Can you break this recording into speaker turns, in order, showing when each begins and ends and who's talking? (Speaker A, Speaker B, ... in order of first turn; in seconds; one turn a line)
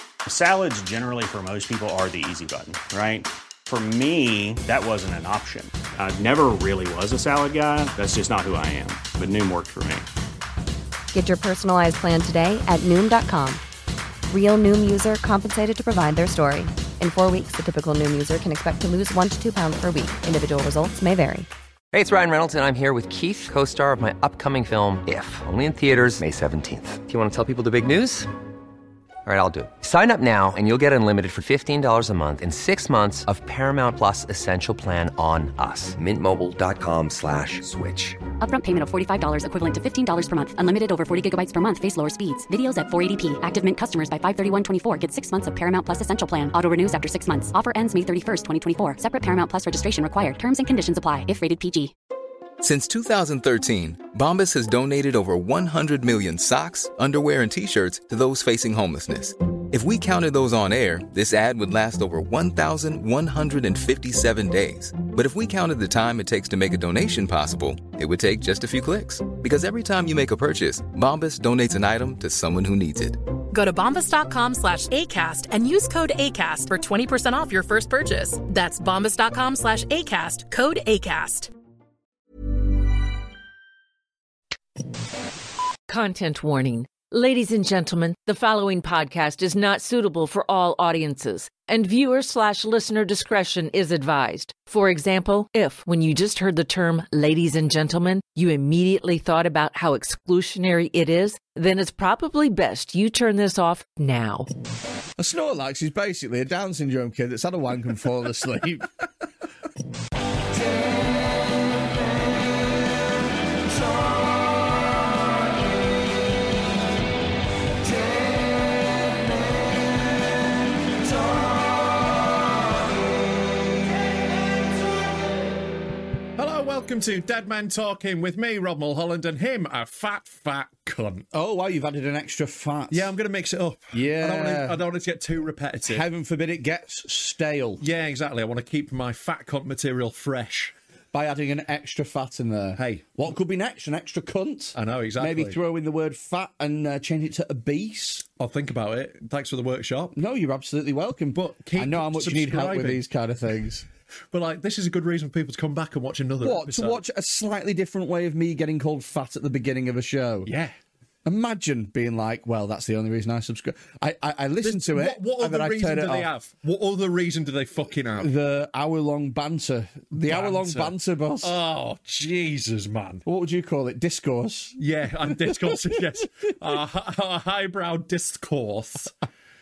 Speaker A: 0.3-10.1
Speaker B: 11.1-13.6
Speaker B: 14.3-21.5
Speaker C: 21.9-28.3
Speaker C: 29.2-38.2
Speaker D: 38.4-51.9
Speaker E: 52.6-73.2
Speaker F: 73.5-81.5
Speaker G: 85.9-104.5
Speaker H: 105.2-108.9
Speaker I: 126.4-131.3
Speaker H: 131.3-133.1
Speaker I: 132.9-136.1
Speaker H: 133.9-134.8
Speaker H: 135.8-137.8
Speaker I: 137.8-140.7
Speaker H: 141.1-148.2
Speaker I: 142.8-143.1
Speaker I: 144.8-145.6
Speaker I: 148.4-150.2
Speaker H: 150.2-153.9
Speaker I: 151.3-153.0
Speaker I: 154.3-157.0
Speaker H: 156.4-160.5
Speaker I: 160.4-160.8
Speaker H: 161.2-166.3
Speaker I: 164.6-168.3
Speaker H: 168.2-171.6
Speaker I: 170.2-173.2
Speaker H: 173.3-176.0
Speaker I: 174.8-179.1